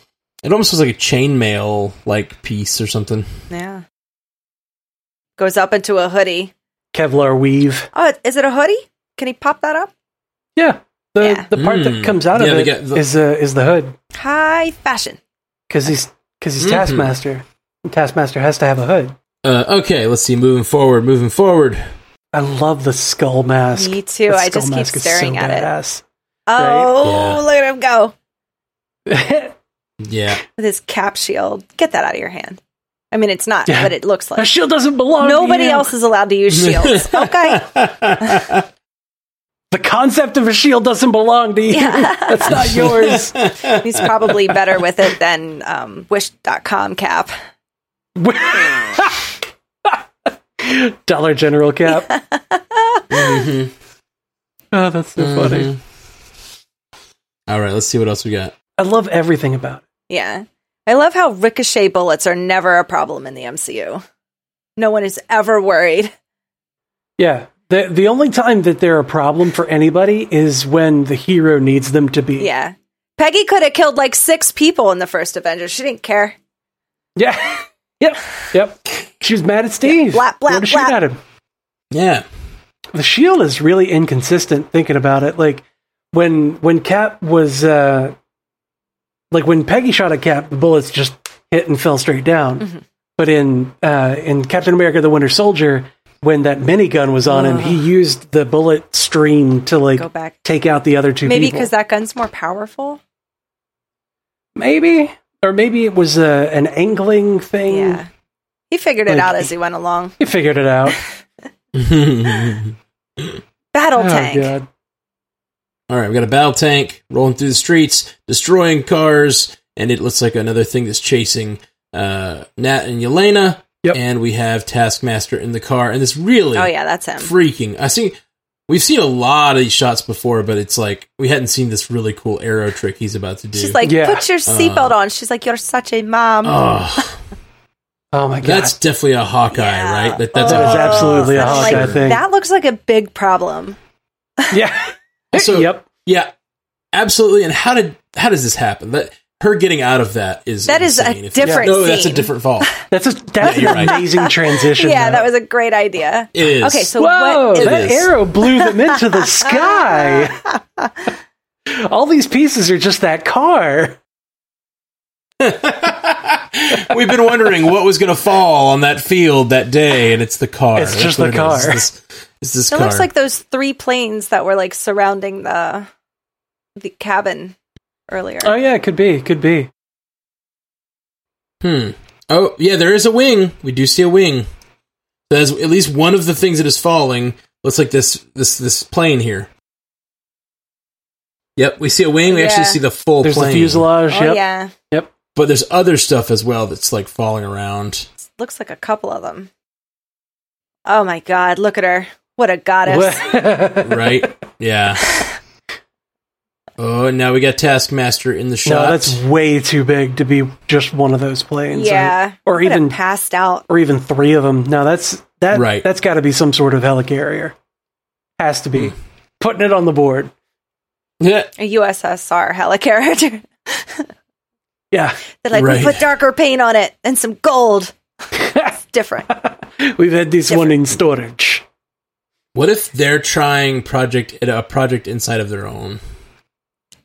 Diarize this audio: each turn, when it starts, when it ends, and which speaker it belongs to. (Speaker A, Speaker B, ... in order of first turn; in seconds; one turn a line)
Speaker A: 0.4-3.3
Speaker B: 3.5-3.8
Speaker B: 5.4-6.5
Speaker C: 6.9-7.9
Speaker B: 7.9-9.9
Speaker C: 10.6-14.0
Speaker B: 11.2-11.5
Speaker A: 11.6-13.1
Speaker B: 14.2-15.2
Speaker C: 15.7-19.2
Speaker A: 16.6-17.1
Speaker A: 19.4-21.8
Speaker C: 22.3-26.0
Speaker B: 23.8-25.7
Speaker B: 26.5-28.1
Speaker C: 26.6-26.9
Speaker A: 27.0-27.4
Speaker C: 29.1-29.6
Speaker A: 30.0-30.4
Speaker B: 30.6-32.6
Speaker B: 33.1-34.5
Speaker C: 33.7-35.9
Speaker B: 35.2-38.4
Speaker A: 36.5-38.6
Speaker C: 39.7-43.4
Speaker B: 41.7-42.5
Speaker A: 42.5-44.1
Speaker B: 43.8-47.3
Speaker C: 48.2-50.0
Speaker C: 50.6-52.1
Speaker B: 52.0-53.3
Speaker A: 53.1-53.7
Speaker C: 54.7-55.7
Speaker A: 55.2-55.8
Speaker A: 57.5-58.5
Speaker C: 58.8-59.8
Speaker B: 60.1-64.0
Speaker B: 64.8-66.1
Speaker C: 67.2-72.5
Speaker B: 72.4-76.4
Speaker C: 77.2-81.2
Speaker B: 79.9-81.0
Speaker A: 81.9-82.2
Speaker C: 82.9-88.2
Speaker C: 89.3-92.7
Speaker C: 93.2-101.7
Speaker B: 97.3-97.9
Speaker B: 100.0-100.4
Speaker B: 101.2-103.0
Speaker C: 104.6-108.0
Speaker B: 107.7-108.1
Speaker B: 108.7-110.2
Speaker C: 109.1-109.5
Speaker C: 110.2-111.0
Speaker A: 111.7-113.4
Speaker B: 113.7-114.5
Speaker C: 114.0-114.7
Speaker A: 115.9-128.2
Speaker B: 126.5-127.3
Speaker A: 128.7-133.8
Speaker B: 133.5-136.8
Speaker C: 133.8-134.3
Speaker A: 134.5-134.9
Speaker A: 136.4-137.2
Speaker C: 138.1-138.8
Speaker A: 138.4-142.0
Speaker B: 139.5-143.8
Speaker C: 140.4-142.2
Speaker C: 144.5-145.9
Speaker A: 145.3-146.3
Speaker A: 146.9-152.7
Speaker B: 150.7-152.3
Speaker C: 151.4-151.8
Speaker C: 152.9-155.3
Speaker A: 153.4-154.0
Speaker B: 153.4-157.9
Speaker A: 156.3-156.9
Speaker C: 157.0-160.4
Speaker A: 157.6-158.1
Speaker B: 158.6-160.9
Speaker C: 161.7-164.0
Speaker A: 165.4-173.1
Speaker C: 170.8-171.8
Speaker B: 172.7-175.9
Speaker B: 176.8-177.6
Speaker B: 178.1-178.5
Speaker C: 178.4-179.7
Speaker A: 181.6-184.5
Speaker A: 185.3-189.5
Speaker A: 191.6-193.9
Speaker B: 192.3-192.8
Speaker C: 193.2-195.1
Speaker B: 194.1-194.7
Speaker A: 195.3-198.1
Speaker B: 198.3-199.5
Speaker B: 200.9-203.3
Speaker C: 202.8-204.4
Speaker A: 203.8-205.2
Speaker A: 206.8-209.2
Speaker C: 208.7-213.0
Speaker B: 211.7-213.7
Speaker C: 213.7-217.6
Speaker A: 215.5-215.9
Speaker C: 218.4-220.3
Speaker A: 221.2-221.5
Speaker B: 221.6-224.1
Speaker C: 224.9-225.2
Speaker B: 225.4-227.9
Speaker A: 225.5-226.0
Speaker C: 228.3-228.7
Speaker B: 228.6-229.3
Speaker C: 229.3-231.7
Speaker B: 230.5-230.8
Speaker A: 232.6-236.0